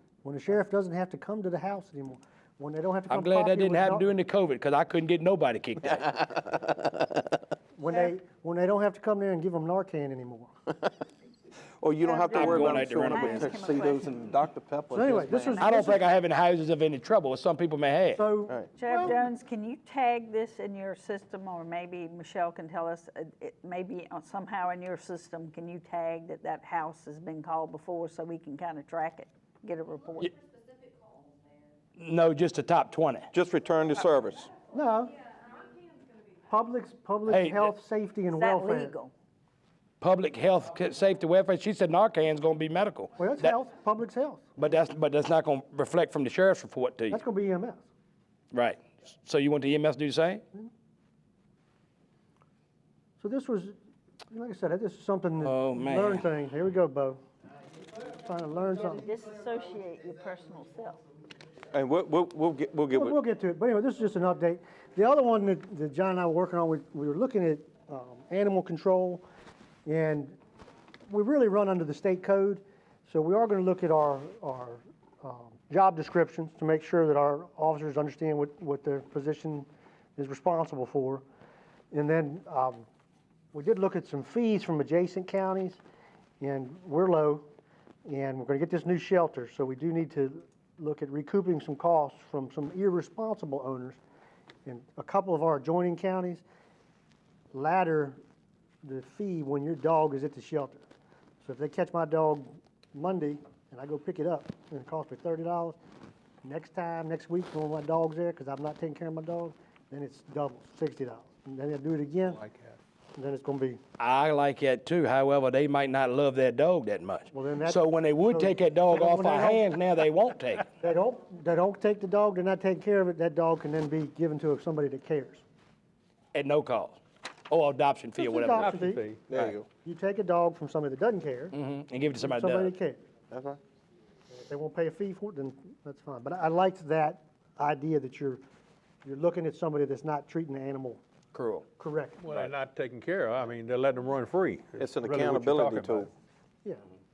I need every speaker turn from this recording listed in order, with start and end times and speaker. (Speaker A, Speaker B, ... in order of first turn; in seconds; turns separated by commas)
Speaker A: 0.2-4.1, Speaker B: 3.1-6.1, Speaker C: 5.9-6.9, Speaker A: 7.8-10.5, Speaker C: 11.8-15.7, Speaker D: 12.0-14.2, Speaker B: 12.3-13.5, Speaker A: 14.9-16.0, Speaker B: 15.6-18.2, Speaker A: 18.1-19.2, Speaker D: 18.8-30.3, Speaker B: 32.0-33.3, Speaker C: 33.3-34.5, Speaker A: 34.7-35.2, Speaker A: 36.5-38.9, Speaker B: 37.3-37.7, Speaker D: 38.3-39.1, Speaker B: 40.0-43.5, Speaker A: 43.2-44.4, Speaker B: 44.6-47.2, Speaker A: 47.1-47.9, Speaker B: 48.5-50.4, Speaker A: 53.2-53.8, Speaker A: 54.3-57.2, Speaker B: 55.4-56.2, Speaker A: 58.1-59.1, Speaker D: 59.0-61.0, Speaker C: 61.7-63.2, Speaker A: 62.9-69.2, Speaker A: 69.8-70.4, Speaker A: 71.1-81.2, Speaker A: 81.9-82.9, Speaker A: 83.5-85.8, Speaker A: 86.4-87.5, Speaker A: 88.0-94.0, Speaker A: 94.7-96.4, Speaker A: 97.5-98.2, Speaker A: 98.8-100.8, Speaker A: 101.4-105.8, Speaker A: 106.4-112.4, Speaker E: 112.4-112.8, Speaker A: 113.2-113.8, Speaker B: 114.0-120.7, Speaker A: 117.3-119.7, Speaker A: 120.8-125.4, Speaker B: 126.3-128.9, Speaker A: 128.2-129.0, Speaker E: 128.5-129.3, Speaker C: 129.3-129.7, Speaker A: 129.7-131.6, Speaker B: 131.5-132.7, Speaker A: 132.2-133.0, Speaker C: 133.3-133.6, Speaker A: 134.3-138.4, Speaker A: 139.0-141.0, Speaker B: 141.3-141.7, Speaker A: 141.8-142.3, Speaker E: 142.2-146.1, Speaker C: 144.8-146.1